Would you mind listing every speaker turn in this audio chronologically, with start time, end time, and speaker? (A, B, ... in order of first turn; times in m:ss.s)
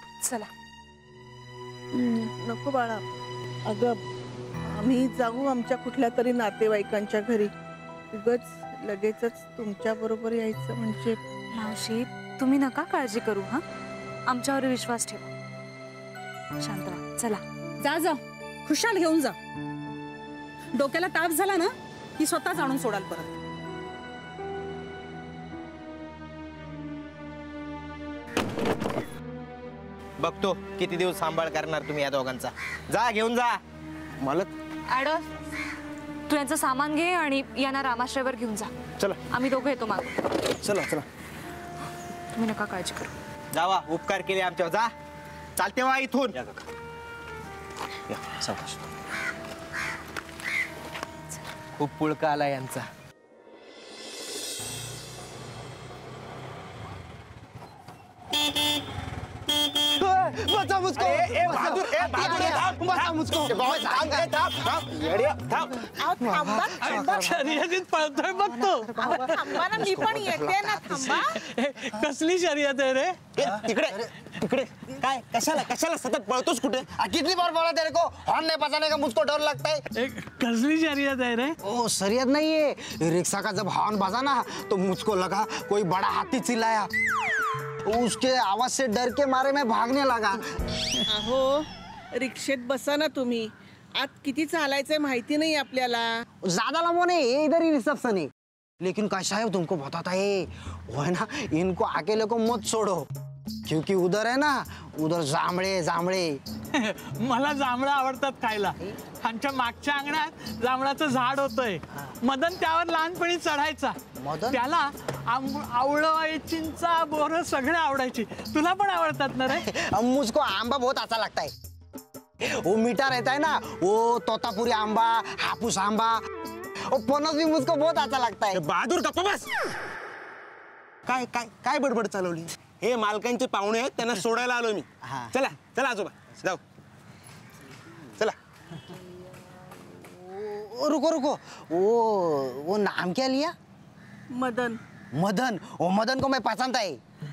0:00.2-0:00.5 A
0:01.9-0:03.0 B
0:03.7-0:04.0 B
0:04.7-0:07.5 B
0:08.1-0:11.2 B
0:11.5-0:13.6 A
0:14.3-0:15.3 A
0:16.6-0:17.4 A
0:17.8-0:19.4 C
0:20.7-0:23.3 C
0:30.2-0:33.6 D
0:34.2-0:34.5 D
0:34.9-0:35.2 A
0:36.3-0:38.7 A
0:39.3-0:40.2 A
0:42.4-0:43.1 A
0:43.5-0:44.9 D
0:45.6-0:46.4 D
0:48.2-0:48.7 D
0:51.8-0:52.8 D
1:00.0-1:04.3 E
1:00.9-1:05.8 D
1:06.0-1:07.0 B
1:06.2-1:07.7 E
1:06.8-1:09.4 F
1:08.9-1:11.2 E
1:09.0-1:11.3 B
1:11.0-1:13.2 F
1:13.4-1:16.9 D
1:13.4-1:14.6 E
1:16.9-1:19.8 E
1:20.0-1:21.6 F
1:21.6-1:26.9 E
1:27.8-1:30.4 E
1:31.1-1:31.5 B
1:32.2-1:36.0 B
1:36.4-1:38.3 E
1:38.8-1:43.0 E
1:43.7-1:46.4 E
1:46.7-1:54.0 F
1:54.2-1:54.6 E
1:54.5-1:59.6 F
1:59.5-2:01.5 E
2:02.5-2:06.2 E
2:06.9-2:08.6 E
2:08.5-2:09.5 D
2:11.1-2:16.6 D
2:15.0-2:15.3 E
2:19.9-2:23.5 E
2:24.3-2:24.8 B
2:25.1-2:27.0 E